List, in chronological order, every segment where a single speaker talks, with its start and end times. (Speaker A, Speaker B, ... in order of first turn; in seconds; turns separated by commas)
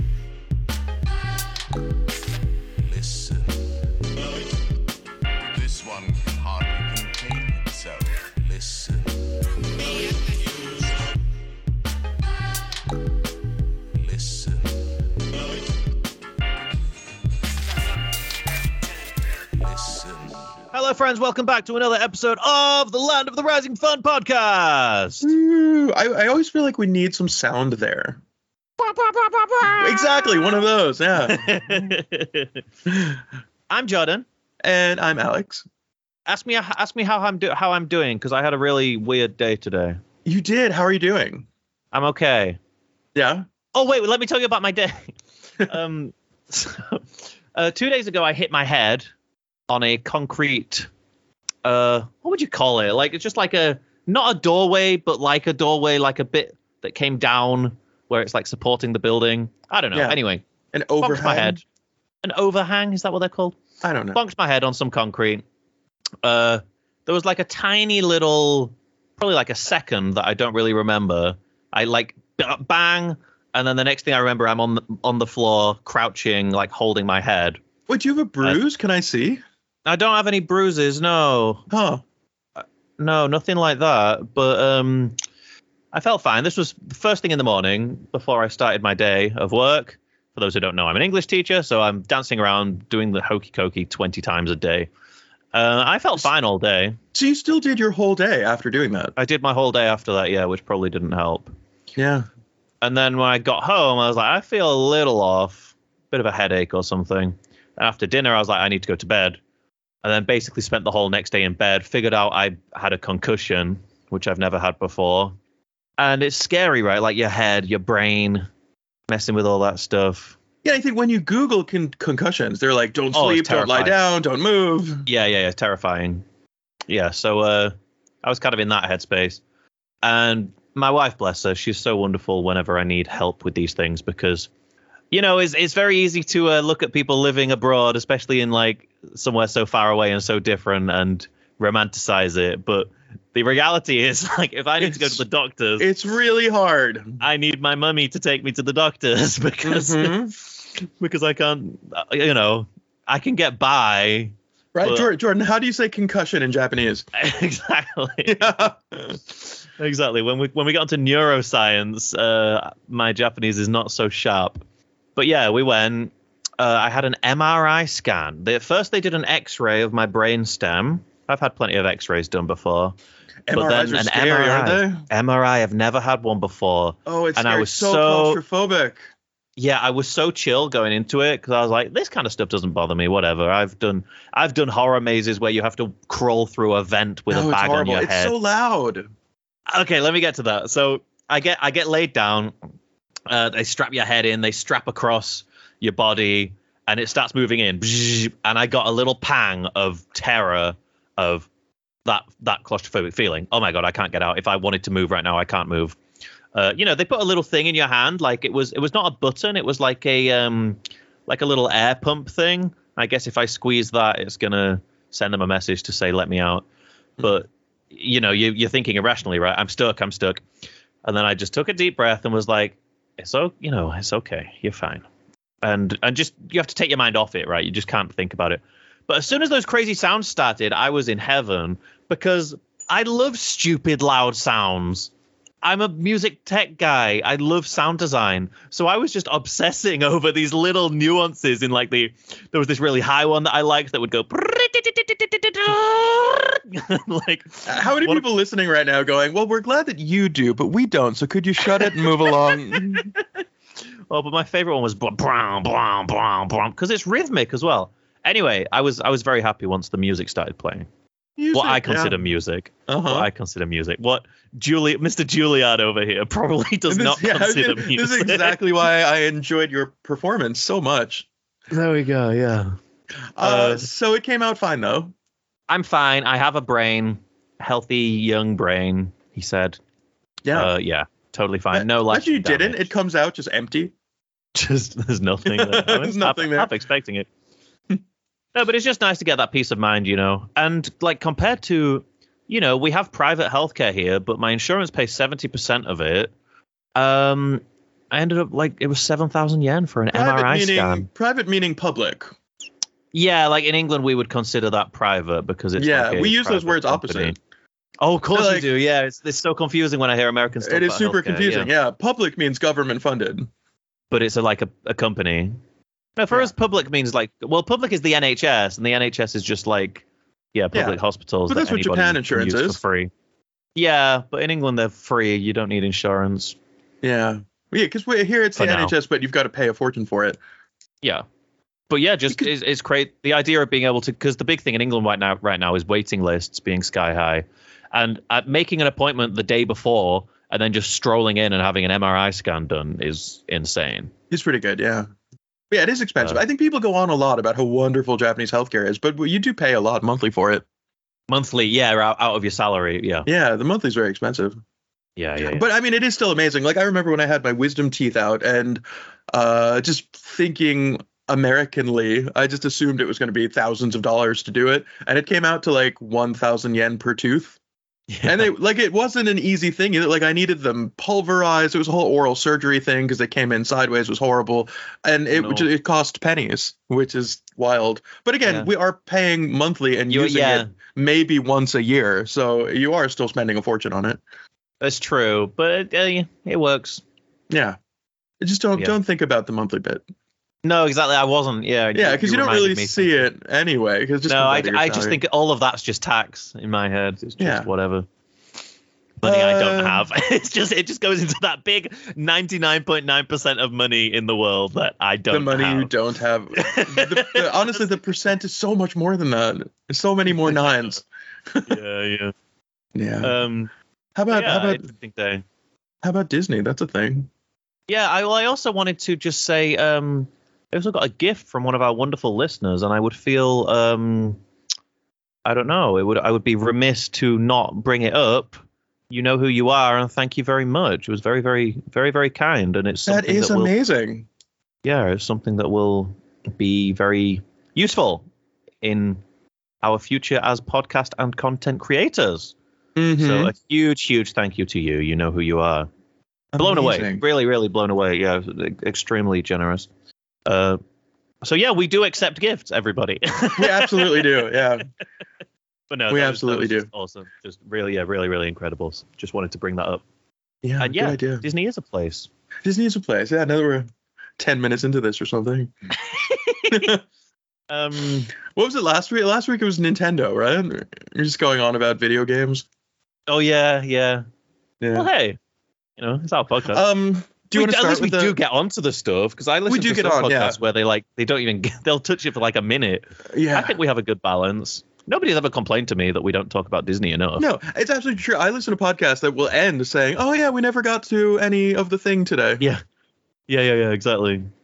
Speaker A: 2.8-3.7, Speaker A: 5.4-9.3, Speaker A: 13.9-14.9, Speaker A: 19.5-20.7, Speaker B: 20.7-25.3, Speaker C: 25.2-28.2, Speaker B: 28.8-30.4, Speaker C: 29.8-31.9, Speaker B: 31.2-32.6, Speaker C: 32.9-33.2, Speaker B: 33.7-34.2, Speaker C: 34.6-35.7, Speaker B: 36.3-40.0, Speaker C: 40.2-41.5, Speaker B: 41.9-42.6, Speaker C: 43.1-43.5, Speaker B: 43.7-49.1, Speaker B: 49.7-50.9, Speaker B: 51.6-60.4, Speaker C: 60.7-61.6, Speaker B: 61.0-61.6, Speaker B: 62.2-63.6, Speaker C: 63.8-64.2, Speaker B: 64.1-65.4, Speaker B: 66.2-77.6, Speaker C: 77.9-79.4, Speaker B: 79.9-81.7, Speaker C: 81.7-82.0, Speaker B: 82.6-85.2, Speaker B: 85.9-94.9, Speaker B: 95.5-97.0, Speaker C: 97.1-99.1, Speaker B: 99.2-101.5, Speaker C: 102.0-102.3, Speaker B: 102.8-109.4, Speaker B: 110.0-115.4, Speaker B: 116.0-118.5, Speaker B: 119.1-120.4, Speaker C: 120.6-125.1, Speaker B: 123.1-124.0, Speaker B: 125.1-126.2, Speaker B: 126.9-129.4, Speaker B: 130.0-134.5, Speaker B: 135.1-145.9, Speaker C: 144.8-145.2, Speaker C: 145.8-147.2, Speaker B: 147.2-155.1, Speaker C: 149.7-150.3, Speaker C: 154.7-157.1, Speaker B: 157.2-158.4, Speaker C: 158.3-159.2, Speaker B: 159.8-164.6, Speaker B: 165.2-172.9, Speaker C: 173.5-175.1, Speaker B: 173.5-178.4, Speaker C: 177.1-179.0, Speaker B: 179.6-188.3, Speaker C: 187.3-189.1, Speaker B: 189.7-192.5, Speaker B: 193.3-201.5, Speaker B: 202.1-206.0, Speaker B: 206.5-216.7, Speaker B: 217.2-220.4, Speaker B: 221.0-225.1, Speaker B: 225.6-235.1, Speaker B: 235.6-248.2, Speaker C: 247.7-253.1, Speaker B: 251.7-253.4, Speaker B: 254.1-260.9, Speaker C: 261.4-262.2, Speaker B: 261.5-268.6, Speaker C: 262.9-263.3, Speaker C: 266.9-271.3, Speaker B: 271.7-272.8, Speaker C: 273.4-275.1, Speaker B: 273.4-273.9, Speaker B: 275.7-279.8, Speaker C: 280.4-280.7, Speaker B: 280.5-282.9, Speaker C: 281.7-283.9, Speaker B: 284.6-287.3, Speaker C: 285.5-286.7, Speaker B: 288.6-296.3, Speaker B: 297.0-301.1, Speaker C: 300.1-302.3, Speaker B: 303.1-307.4, Speaker C: 305.8-307.4, Speaker B: 308.0-311.7, Speaker C: 308.3-308.7, Speaker C: 310.6-313.5, Speaker B: 314.1-315.6, Speaker B: 316.2-323.1, Speaker C: 320.7-322.8, Speaker B: 323.8-326.6, Speaker C: 327.0-330.4, Speaker B: 328.6-328.9, Speaker B: 331.9-344.1, Speaker C: 344.3-345.1, Speaker C: 345.7-350.6, Speaker B: 351.3-353.3, Speaker C: 353.3-354.6, Speaker B: 355.2-355.7, Speaker C: 355.4-367.6, Speaker B: 368.1-368.5, Speaker C: 368.2-384.2, Speaker B: 375.3-375.7, Speaker B: 378.4-378.7, Speaker B: 380.1-380.7, Speaker B: 384.8-387.0, Speaker C: 387.5-387.8, Speaker C: 388.4-390.0, Speaker B: 390.6-393.3, Speaker C: 391.9-395.2, Speaker B: 394.3-398.1, Speaker C: 397.4-397.7, Speaker B: 399.2-405.9, Speaker C: 399.2-400.1, Speaker C: 405.3-411.7, Speaker B: 406.6-407.8, Speaker B: 411.7-412.3, Speaker C: 412.9-413.3, Speaker B: 413.2-413.7, Speaker C: 414.2-414.9, Speaker B: 414.3-415.4, Speaker C: 416.0-417.3, Speaker B: 417.9-424.4, Speaker B: 425.4-428.6, Speaker B: 429.1-433.7, Speaker C: 433.1-434.3, Speaker B: 434.8-438.3, Speaker B: 438.8-439.2, Speaker B: 439.8-442.6, Speaker C: 443.0-443.5, Speaker B: 443.2-445.9, Speaker C: 446.5-447.2, Speaker B: 446.6-449.9, Speaker B: 450.5-450.8, Speaker B: 451.4-454.3, Speaker C: 453.6-454.9, Speaker B: 455.9-460.0, Speaker C: 456.1-456.9, Speaker C: 460.6-461.4, Speaker B: 460.8-462.3, Speaker C: 462.6-465.7, Speaker B: 466.0-467.0, Speaker C: 466.7-467.0, Speaker B: 467.7-468.3, Speaker C: 468.4-472.6, Speaker B: 473.3-474.2, Speaker C: 474.8-475.1, Speaker B: 474.9-475.4, Speaker B: 476.0-476.8, Speaker C: 476.7-478.4, Speaker B: 477.5-487.5, Speaker C: 479.7-480.6, Speaker C: 483.3-483.8, Speaker C: 487.4-492.6, Speaker B: 493.5-494.5